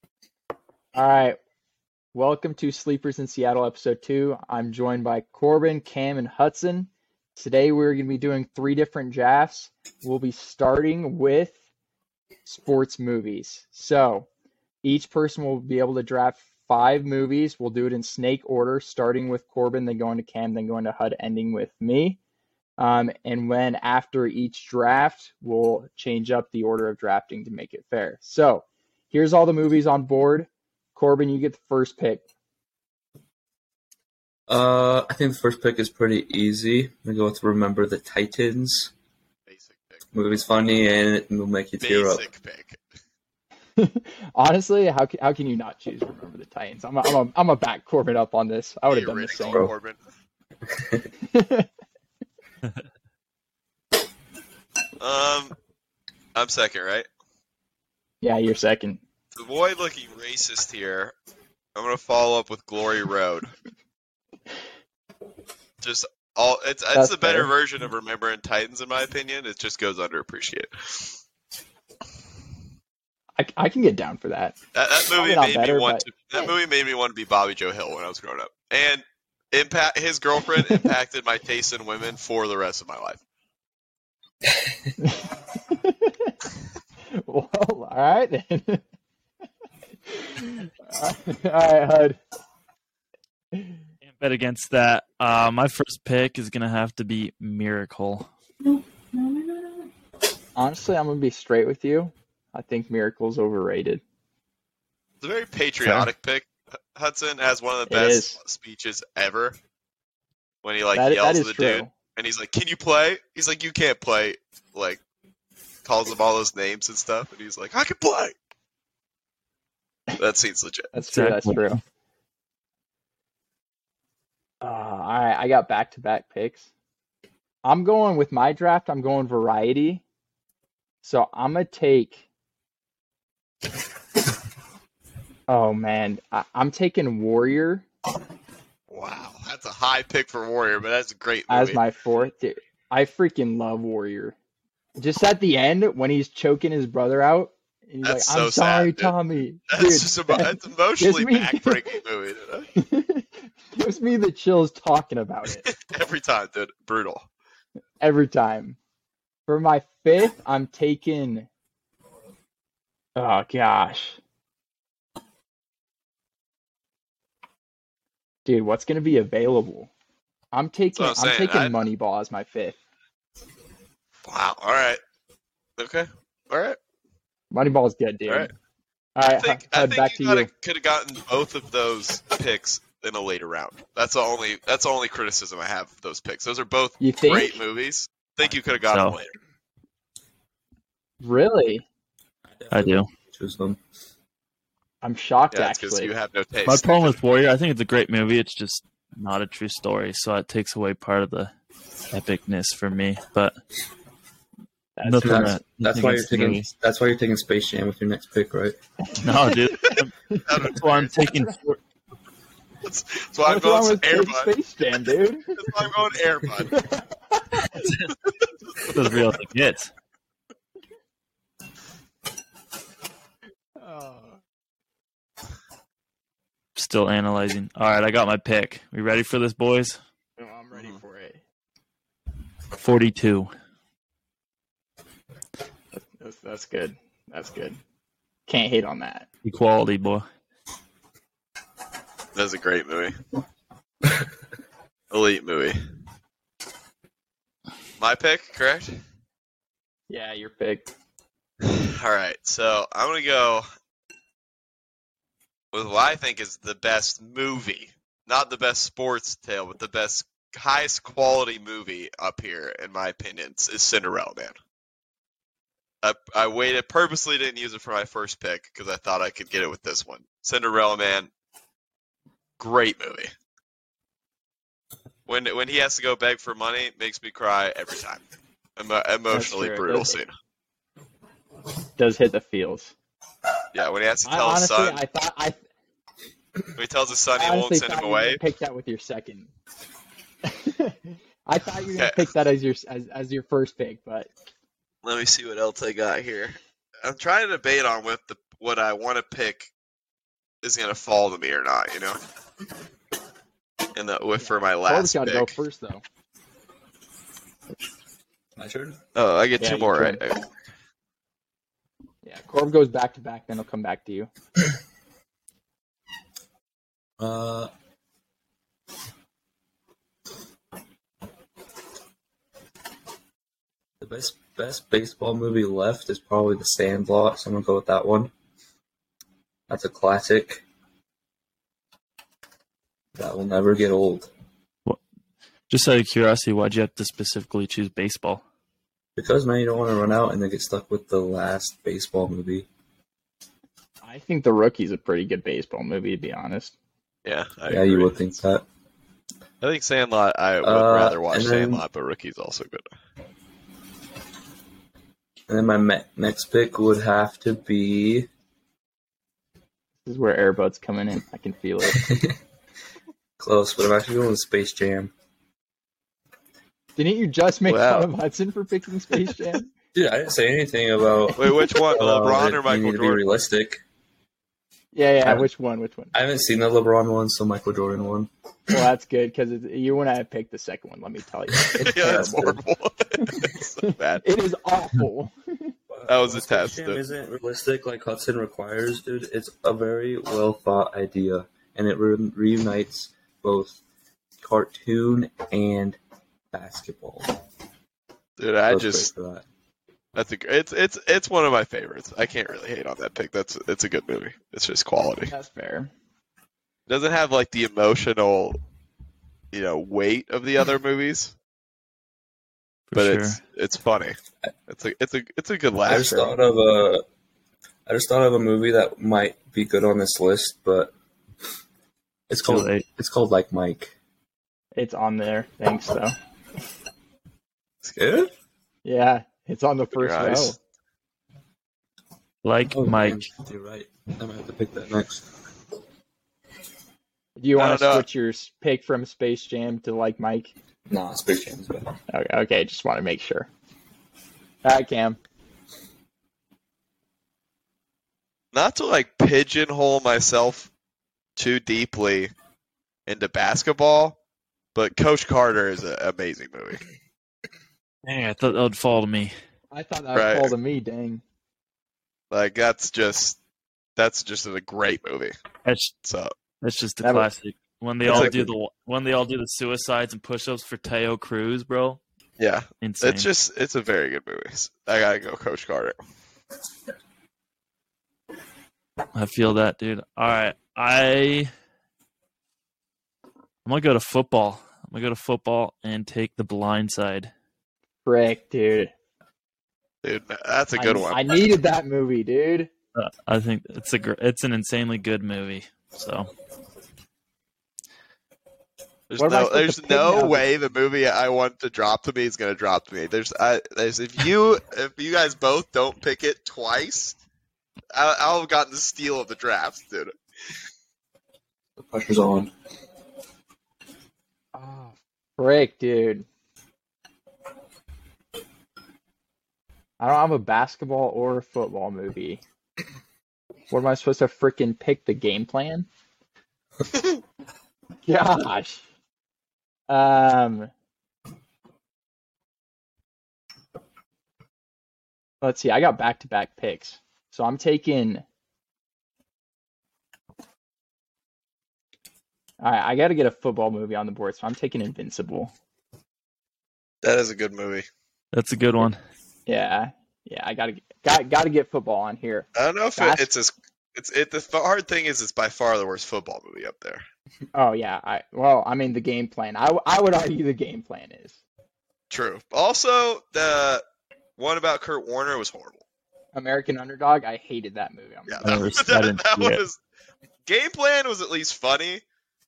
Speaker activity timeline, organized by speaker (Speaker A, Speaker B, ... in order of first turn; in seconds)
Speaker A: 0.9-1.4, 2.1-11.6, 12.4-14.3, 14.8-22.2, 22.8-32.2, 43.8-49.7, 51.3-51.7, 58.2-59.0, 66.9-67.5, 73.4-74.5, 75.1-76.5, 80.6-80.8, 85.0-86.3, 87.1-88.8, 90.1-92.2, 93.5-93.8, 100.5-104.0, 107.9-108.4, 110.9-111.9, 120.9-121.8, 124.6-126.7, 127.6-130.0, 131.0-132.2, 135.5-137.8, 141.5-144.3, 145.0-152.0, 152.8-155.7, 158.0-158.8, 159.5-161.5, 163.2-164.2, 168.4-169.9, 170.5-172.8, 177.5-178.5, 179.2-180.5, 187.0-187.6, 191.2-191.8, 195.0-196.1, 204.9-205.6, 209.0-210.7, 211.2-211.5, 213.4-215.5, 216.7-217.8, 223.8-224.4, 230.4-231.4, 235.9-237.8, 238.5-239.3, 250.1-250.9, 279.3-280.2, 282.0-282.9, 284.2-285.6, 287.3-289.5, 290.5-294.3, 304.4-306.0, 309.6-310.2, 312.2-314.3, 344.0-346.8, 360.0-362.1, 366.9-369.7, 374.9-376.1, 378.7-382.6, 383.8-385.7, 405.3-405.9, 415.9-416.4, 424.7-426.1, 428.8-430.6, 437.4-440.5, 442.1-443.5, 444.6-445.2, 459.7-461.2, 467.0-467.3, 468.1-468.3, 488.0-488.9, 490.8-492.7, 499.2-500.4, 514.5-516.2, 520.0-522.4, 523.7-525.9, 528.0-528.8, 529.9-530.7, 535.4-538.2, 542.6-545.5, 549.5-553.3, 557.5-561.4, 566.3-568.6
Speaker B: 34.5-38.9, 40.1-42.2, 49.5-49.7, 50.7-51.0, 192.4-193.8, 205.2-208.8, 308.6-309.0, 317.2-317.7, 324.0-328.3, 329.7-330.6, 333.1-334.3, 339.1-342.7, 347.7-348.6, 350.6-351.8, 355.5-358.3, 361.9-362.3, 363.4-365.1, 369.9-373.8, 376.1-378.8, 381.7-382.4, 385.9-393.8, 394.4-396.0, 396.5-397.3, 398.7-399.4, 415.9-417.0, 417.9-420.9, 422.3-423.9, 428.0-428.3, 432.7-435.2, 440.9-441.9, 511.8-512.5
Speaker C: 39.5-40.0, 41.8-42.8, 48.9-50.0, 55.0-55.5, 56.4-57.1, 59.4-61.1, 61.7-63.5, 65.8-71.2, 74.7-83.2, 105.2-109.5, 110.6-115.0, 115.8-118.3, 120.2-120.9, 138.9-141.8, 148.0-149.1, 149.7-152.7, 155.6-157.2, 170.9-171.8, 174.2-175.0, 175.8-176.8, 179.3-189.3, 195.5-197.2, 210.5-211.1, 212.8-214.5, 215.6-216.7, 230.7-231.0, 242.3-243.1, 245.1-245.8, 248.0-249.0, 251.6-253.6, 255.7-264.5, 266.0-271.3, 272.6-273.3, 275.3-278.2, 278.8-280.3, 283.7-285.0, 286.8-288.4, 291.9-292.2, 295.0-299.7, 300.6-302.2, 303.9-305.6, 309.1-310.4, 347.2-348.1, 349.6-352.9, 367.7-368.1, 371.4-373.2, 381.8-384.2, 386.1-387.0, 398.4-399.1, 400.1-405.3, 406.9-408.6, 409.5-411.3, 412.9-414.1, 414.7-416.1, 429.9-430.5, 437.5-438.1, 448.5-450.7, 451.4-452.3, 453.1-454.2, 454.7-456.8, 460.1-460.5, 462.3-463.4, 464.0-465.3, 466.0-466.3, 468.0-468.4, 472.4-475.9, 490.0-491.3, 499.1-507.2, 507.9-510.1, 526.9-527.2, 547.0-547.9, 552.5-557.0, 562.1-563.8, 564.4-565.8, 568.3-569.8, 570.5-572.0
Speaker D: 94.0-98.3, 121.1-121.8, 188.9-189.2, 192.7-193.1, 196.6-201.5, 202.1-203.5, 205.0-206.7, 209.2-210.1, 210.7-211.8, 217.8-218.1, 218.9-219.9, 226.8-230.0, 232.7-233.5, 239.4-240.2, 335.7-338.4, 412.9-413.4, 422.4-422.8, 432.4-433.3, 458.0-459.3, 465.6-465.9, 466.6-472.0, 472.8-473.3, 479.1-481.5, 483.6-487.3, 492.9-496.3, 548.3-549.0, 568.4-569.6